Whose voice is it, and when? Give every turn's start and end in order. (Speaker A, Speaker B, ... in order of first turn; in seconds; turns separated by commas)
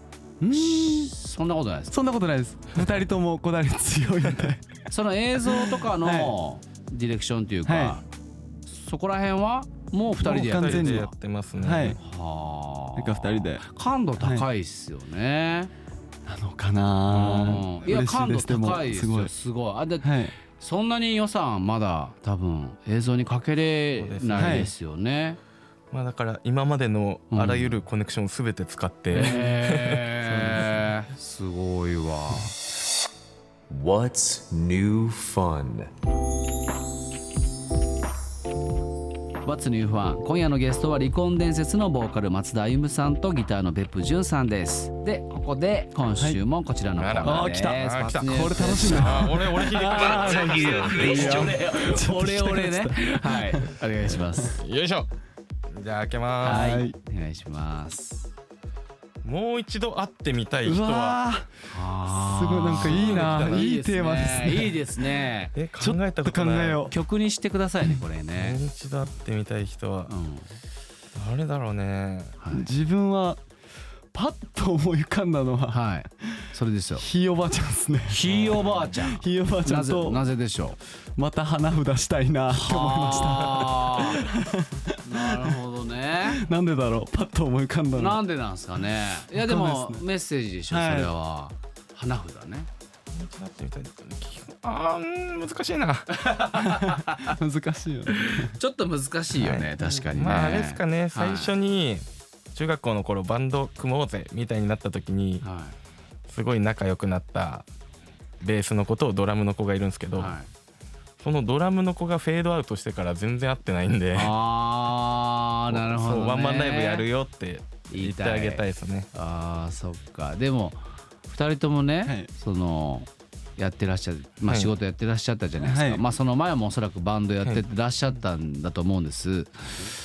Speaker A: 0.4-1.1, Speaker B: 0.5-2.0, Speaker A: 1.9-4.8, Speaker B: 4.9-8.0, Speaker A: 5.4-6.3, Speaker A: 7.7-8.0, Speaker B: 8.7-11.0, Speaker A: 10.2-12.0, Speaker C: 10.3-12.0, Speaker B: 12.0-15.7, Speaker A: 12.9-13.7, Speaker A: 14.2-14.5, Speaker A: 16.3-19.3, Speaker B: 17.1-25.4, Speaker A: 20.0-20.4, Speaker C: 23.9-24.7, Speaker A: 24.4-24.7, Speaker C: 25.9-30.1, Speaker B: 27.3-27.8, Speaker B: 29.1-32.6, Speaker A: 30.2-30.8, Speaker D: 33.7-35.9, Speaker B: 39.4-54.6, Speaker C: 46.9-51.6, Speaker A: 47.2-53.8, Speaker C: 54.6-55.1, Speaker C: 55.7-56.8, Speaker B: 56.4-58.3, Speaker A: 56.5-57.0, Speaker C: 59.2-61.2, Speaker A: 60.6-64.8, Speaker B: 61.7-65.5, Speaker C: 62.7-63.7, Speaker C: 65.5-66.9, Speaker A: 65.8-67.0, Speaker B: 66.9-68.6, Speaker C: 68.3-70.1, Speaker B: 70.1-70.5, Speaker C: 71.2-72.4, Speaker B: 72.4-72.7, Speaker A: 72.5-73.4, Speaker A: 74.1-80.3, Speaker B: 75.7-77.1, Speaker B: 78.1-80.8, Speaker C: 78.4-78.6, Speaker A: 81.2-85.6, Speaker B: 82.5-84.2, Speaker B: 85.0-86.5, Speaker A: 86.2-88.2, Speaker B: 88.0-92.7, Speaker A: 89.2-90.1, Speaker A: 90.7-91.1, Speaker C: 93.1-96.4, Speaker B: 96.1-97.4, Speaker A: 96.6-98.5, Speaker B: 98.1-101.5, Speaker C: 99.3-105.4, Speaker B: 105.4-105.8, Speaker C: 106.3-107.7, Speaker C: 108.4-110.3, Speaker B: 110.2-110.5, Speaker C: 111.2-114.3, Speaker B: 114.1-117.1, Speaker C: 115.7-119.1, Speaker B: 117.9-129.9, Speaker C: 124.5-124.7, Speaker A: 125.6-126.0